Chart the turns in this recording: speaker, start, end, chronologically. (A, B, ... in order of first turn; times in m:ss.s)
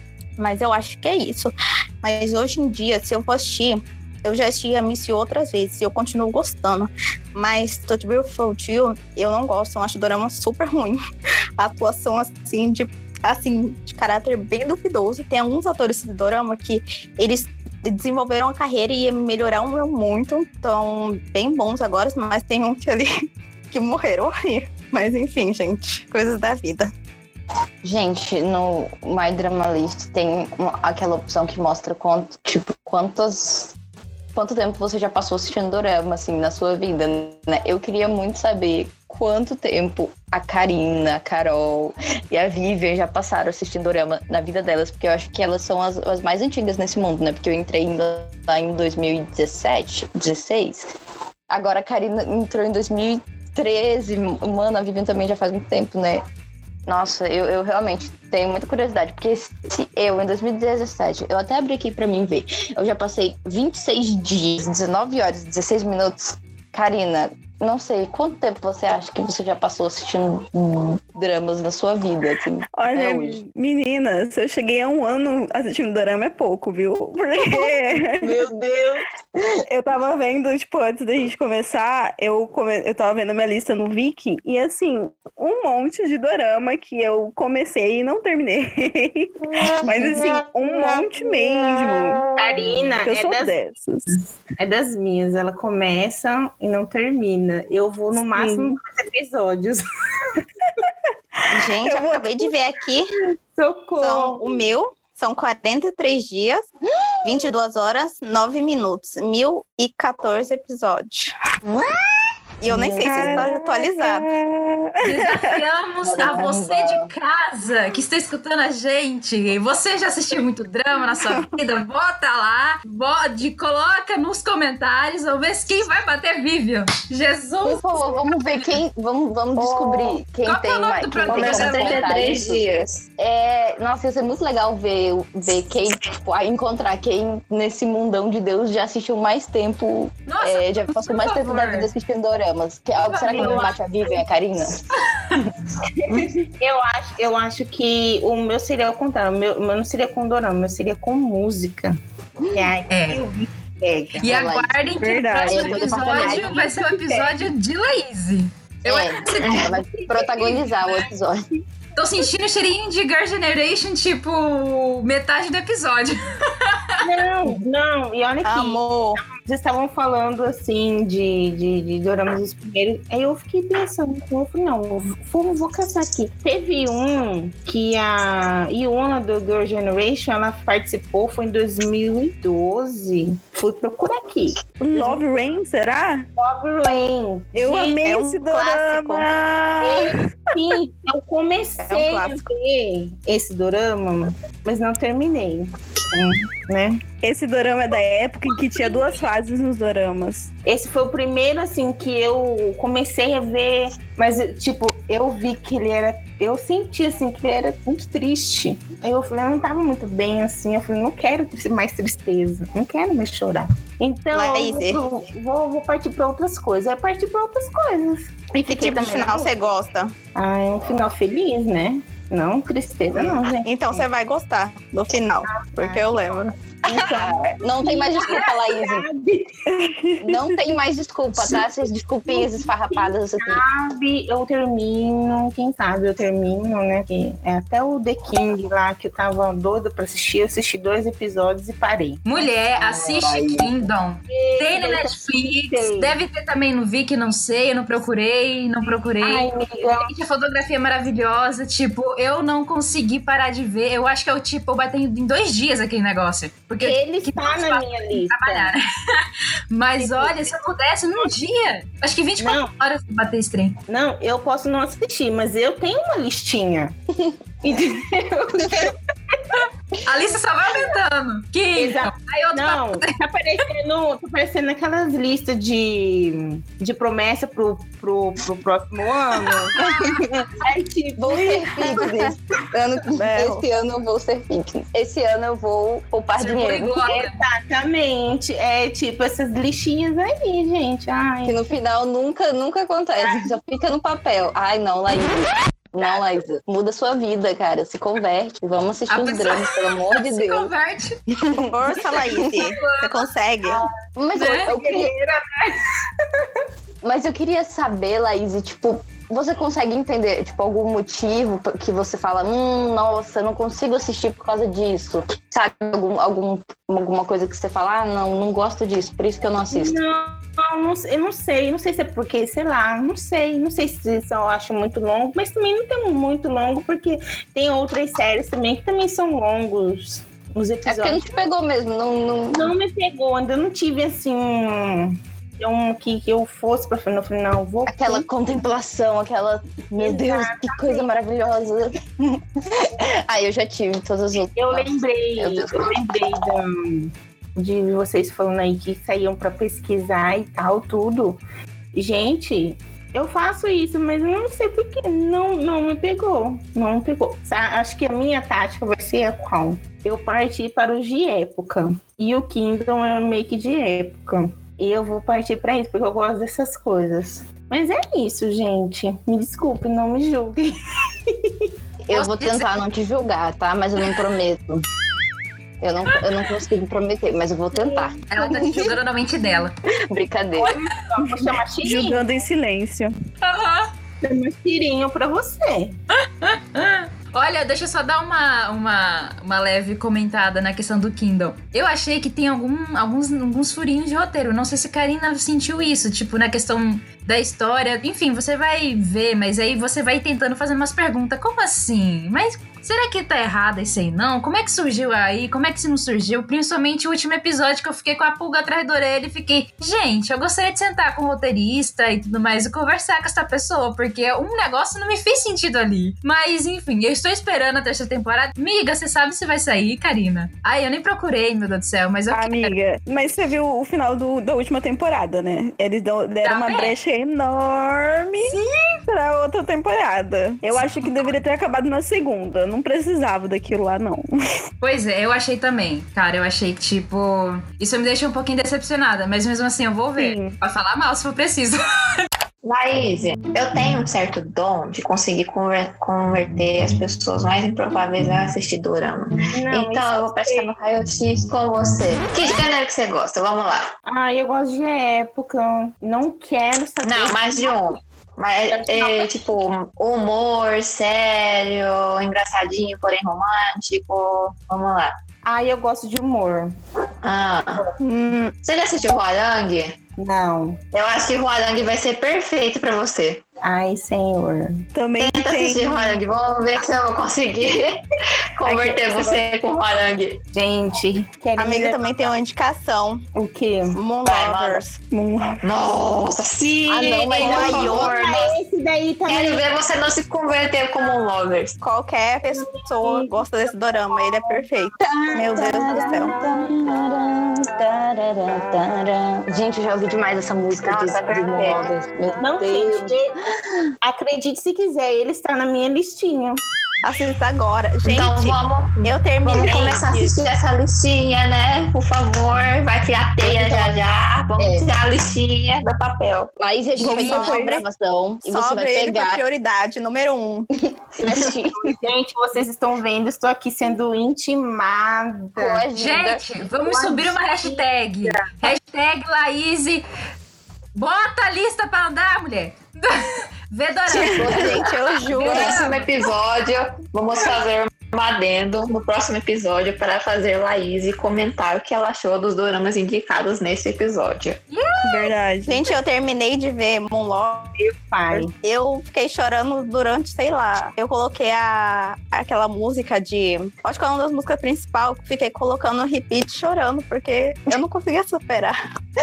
0:00.4-0:11.0 A
0:11.6-0:23.1 A
0:23.7-0:26.9 A
0:27.8-0:33.7 B
0:34.4-0:50.9 B
0:51.5-0:56.2 B
0:56.9-1:13.4 B
1:12.8-1:18.4 C
1:17.4-1:19.5 B
1:19.7-1:32.3 C
1:32.4-1:33.5 D
1:33.0-1:34.2 C
1:34.6-1:39.8 D
1:38.3-1:38.7 C
1:41.4-1:42.5 C
1:41.5-1:43.1 A
1:43.5-1:44.5 D
1:44.0-1:46.6 A
1:47.2-1:51.4 A
1:52.6-1:54.3 A
1:52.6-1:53.5 B
1:53.0-1:55.4 C
1:55.0-2:08.0 E
1:56.0-1:57.1 B
2:07.6-2:12.6 B
2:09.6-2:10.2 F
2:10.4-2:12.2 E
2:11.2-2:13.0 F
2:13.2-2:24.8 B
2:20.3-2:21.9 E
2:23.0-2:23.8 E
2:23.3-2:23.7 D
2:26.1-2:32.0 D
2:32.5-2:34.3 D
2:32.9-2:33.2 E
2:34.2-2:41.0 E
2:34.2-2:34.7 B
2:35.0-2:36.5 C
2:35.5-2:36.5 B
2:35.7-2:37.4 D
2:38.9-2:41.4 B
2:42.0-2:47.0 E
2:47.0-3:05.2 D
2:48.4-2:49.2 A
3:04.8-3:06.3 C
3:06.4-3:08.0 D
3:07.6-3:10.1 C
3:08.0-3:09.3 A
3:09.8-3:17.0 D
3:11.8-3:12.4 A
3:17.2-3:20.5 C
3:20.6-3:39.5 D
3:34.3-3:35.0 A
3:38.6-3:40.1 A
3:40.4-3:44.0 D
3:43.2-3:46.5 A
3:45.4-3:46.2 D
3:46.9-3:49.1 B
3:46.9-3:49.5 D
3:49.7-3:50.6 C
3:50.2-3:53.6 B
3:52.2-4:02.2 D
4:02.2-4:23.8 E
4:02.8-4:03.7 B
4:04.3-4:06.2 D
4:09.2-4:10.1 D
4:16.8-4:18.7 D
4:20.0-4:20.5 D
4:22.4-4:22.7 D
4:23.9-4:27.0 D
4:27.6-4:29.6 D
4:29.5-4:33.1 E
4:31.8-4:42.1 D
4:41.2-4:47.0 B
4:43.1-4:43.6 A
4:46.4-4:47.4 E
4:47.0-4:51.6 D
4:51.4-5:00.7 B
4:59.1-5:01.2 E
5:01.4-5:02.5 B
5:01.7-5:03.8 A
5:02.6-5:03.2 E
5:04.2-5:05.1 B
5:04.4-5:04.7 E
5:04.6-5:05.8 D
5:07.0-5:20.0 B
5:19.7-5:31.2 D
5:30.8-5:32.7 B
5:32.5-5:38.2 D
5:37.9-5:42.0 B
5:40.0-5:41.2 D
5:42.8-5:46.4 B
5:44.6-5:51.4 D
5:51.9-6:10.7 D
6:11.3-6:11.7 D
6:12.1-6:14.8 B
6:12.1-6:12.7 E
6:15.8-6:18.9 B
6:17.7-6:18.9 D
6:18.3-6:19.8 E
6:20.1-6:20.8 B
6:20.6-6:22.3 D
6:21.2-6:23.1 C
6:23.4-6:23.9 E
6:24.2-6:26.0 D
6:26.2-7:02.7 E
7:02.3-7:08.6 C
7:06.4-7:06.9 E
7:08.4-7:09.0 E
7:09.1-7:14.3 C
7:10.7-7:11.1 E
7:14.8-7:22.2 E
7:20.2-7:20.6 C
7:22.6-7:33.9 F
7:29.5-7:30.7 D
7:34.1-7:37.8 D
7:37.0-7:45.1 F
7:38.7-7:39.3 D
7:45.4-7:46.7 D
7:47.2-7:47.9 F
7:48.0-7:48.6 A
7:48.6-7:50.0 F
7:50.2-7:50.8 D
7:50.9-7:53.4 F
7:53.6-7:54.9 D
7:54.9-7:56.2 C
7:55.2-7:58.0 F
7:58.6-8:00.4 F
7:58.6-7:59.2 C
8:00.5-8:02.1 D
8:01.6-8:03.2 A
8:03.4-8:04.0 D
8:03.9-8:05.0 A
8:04.2-8:04.8 F
8:05.1-8:05.6 C
8:05.6-8:08.6 F
8:06.9-8:09.6 D
8:07.0-8:08.1 B
8:09.2-8:11.8 F
8:11.8-8:16.3 A
8:12.5-8:13.3 D
8:14.1-8:14.6 D
8:15.0-8:23.2 B
8:20.7-8:21.9 F
8:22.4-8:23.3 D
8:24.0-8:26.6 D
8:27.0-8:30.4 A
8:28.0-8:36.5 F
8:33.4-8:34.0 B
8:34.6-8:34.9 B
8:36.6-8:39.4 B
8:37.0-8:37.8 A
8:37.0-8:37.8 C
8:38.4-8:40.7 A
8:40.9-8:41.9 B
8:41.2-8:41.5 F
8:41.4-8:45.9 D
8:45.6-8:46.4 B
8:45.9-8:50.0 E
8:46.8-8:47.8 D
8:48.4-8:48.7 D
8:50.9-8:56.1 E
8:54.1-8:55.8 A
8:55.3-9:04.6 F
9:04.7-9:05.3 E
9:05.0-9:05.9 C
9:05.7-9:07.8 A
9:07.8-9:08.5 D
9:08.3-9:18.8 A